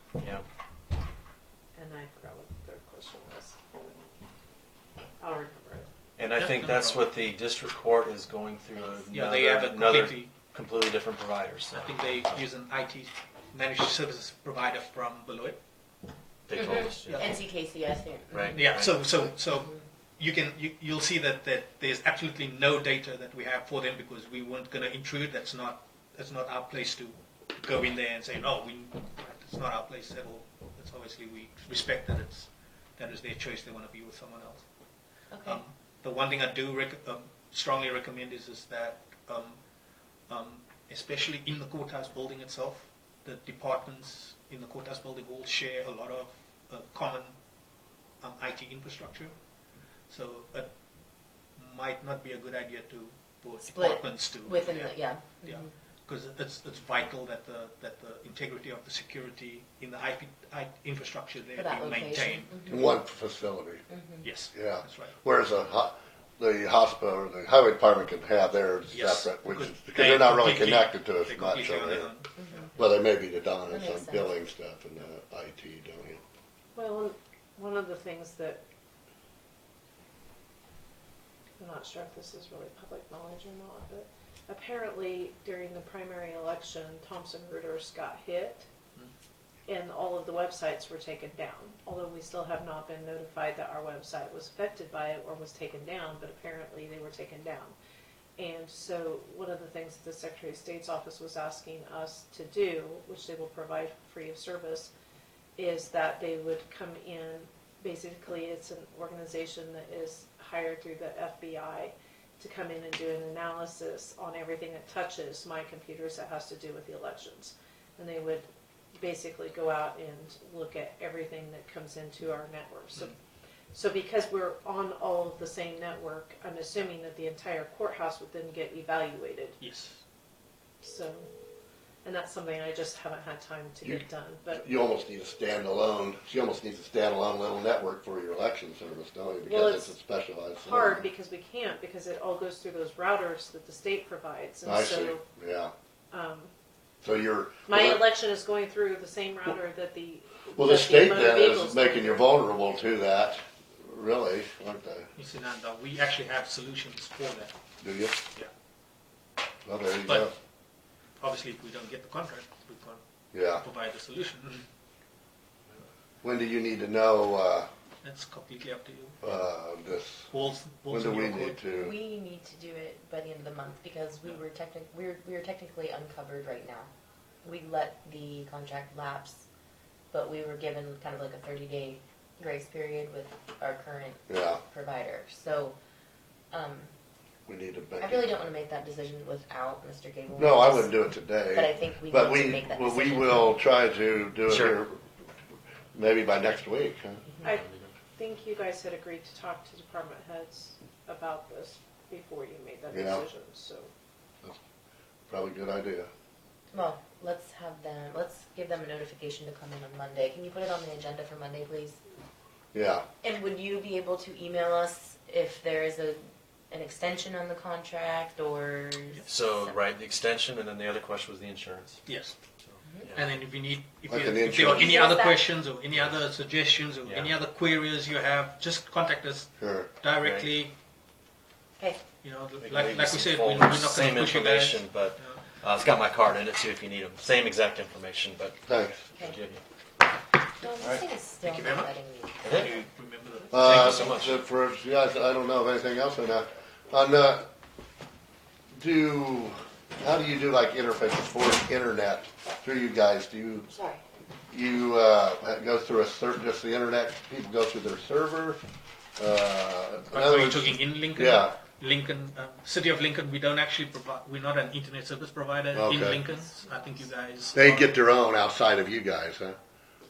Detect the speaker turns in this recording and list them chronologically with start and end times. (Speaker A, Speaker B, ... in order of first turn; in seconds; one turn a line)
Speaker A: 0.2-0.4
Speaker B: 1.8-3.7
Speaker B: 5.2-5.9
Speaker A: 6.2-12.3
Speaker C: 6.3-7.0
Speaker C: 9.1-10.3
Speaker C: 11.7-15.6
Speaker A: 16.5-17.3
Speaker D: 16.6-19.9
Speaker C: 17.1-17.3
Speaker A: 18.3-19.0
Speaker C: 18.5-34.7
Speaker D: 35.3-35.6
Speaker C: 35.5-39.6
Speaker C: 40.3-47.4
Speaker C: 48.2-49.3
Speaker C: 50.1-50.7
Speaker C: 51.6-62.6
Speaker D: 53.6-55.7
Speaker D: 61.5-62.9
Speaker E: 62.7-63.9
Speaker D: 63.9-64.3
Speaker C: 64.2-65.1
Speaker E: 64.5-72.1
Speaker C: 68.9-72.7
Speaker D: 72.4-72.7
Speaker E: 72.8-76.2
Speaker D: 73.7-74.3
Speaker B: 76.8-78.6
Speaker B: 81.6-88.7
Speaker B: 89.7-97.8
Speaker B: 98.4-104.9
Speaker B: 105.6-123.2
Speaker B: 123.7-129.6
Speaker C: 129.6-130.0
Speaker B: 130.8-131.3
Speaker B: 132.0-134.6
Speaker E: 133.8-141.1
Speaker B: 139.4-140.0
Speaker B: 140.6-145.2
Speaker E: 144.7-145.7
Speaker B: 146.1-146.5
Speaker E: 147.0-148.0
Speaker B: 147.7-152.3
Speaker E: 150.6-155.1
Speaker C: 155.2-157.5
Speaker E: 157.8-158.2
Speaker E: 159.7-160.3
Speaker C: 161.2-163.0
Speaker E: 163.3-163.6
Speaker C: 163.5-164.6
Speaker E: 166.2-167.7
Speaker C: 168.0-169.2
Speaker E: 169.2-170.3
Speaker C: 170.3-171.6
Speaker E: 170.9-171.9
Speaker D: 171.7-176.9
Speaker D: 177.4-179.5
Speaker D: 180.1-185.8
Speaker E: 184.3-184.6
Speaker D: 186.5-186.9
Speaker E: 187.5-188.3
Speaker D: 188.0-193.6
Speaker E: 190.4-195.0
Speaker A: 194.5-194.8
Speaker E: 195.9-197.3
Speaker B: 197.4-203.9
Speaker A: 197.5-197.9
Speaker E: 202.9-203.2
Speaker E: 205.3-206.1
Speaker D: 206.7-212.0
Speaker E: 212.7-213.1
Speaker D: 213.2-219.7
Speaker A: 219.3-222.0
Speaker C: 222.1-222.4
Speaker A: 222.6-223.3
Speaker C: 223.1-230.7
Speaker E: 224.1-225.1
Speaker D: 224.7-225.5
Speaker A: 227.1-227.3
Speaker E: 229.6-229.9
Speaker A: 230.2-230.5
Speaker D: 231.8-232.1
Speaker C: 232.2-235.4
Speaker A: 232.6-239.6
Speaker E: 238.7-239.0
Speaker D: 240.6-242.7
Speaker A: 240.8-241.1
Speaker C: 241.4-243.7
Speaker A: 242.4-242.8
Speaker E: 243.5-247.5
Speaker A: 243.5-244.4
Speaker E: 248.8-253.7
Speaker D: 253.7-254.0
Speaker E: 254.5-258.6
Speaker E: 259.2-261.6
Speaker C: 260.1-267.9
Speaker E: 265.8-266.2
Speaker D: 266.5-266.9
Speaker E: 267.5-269.6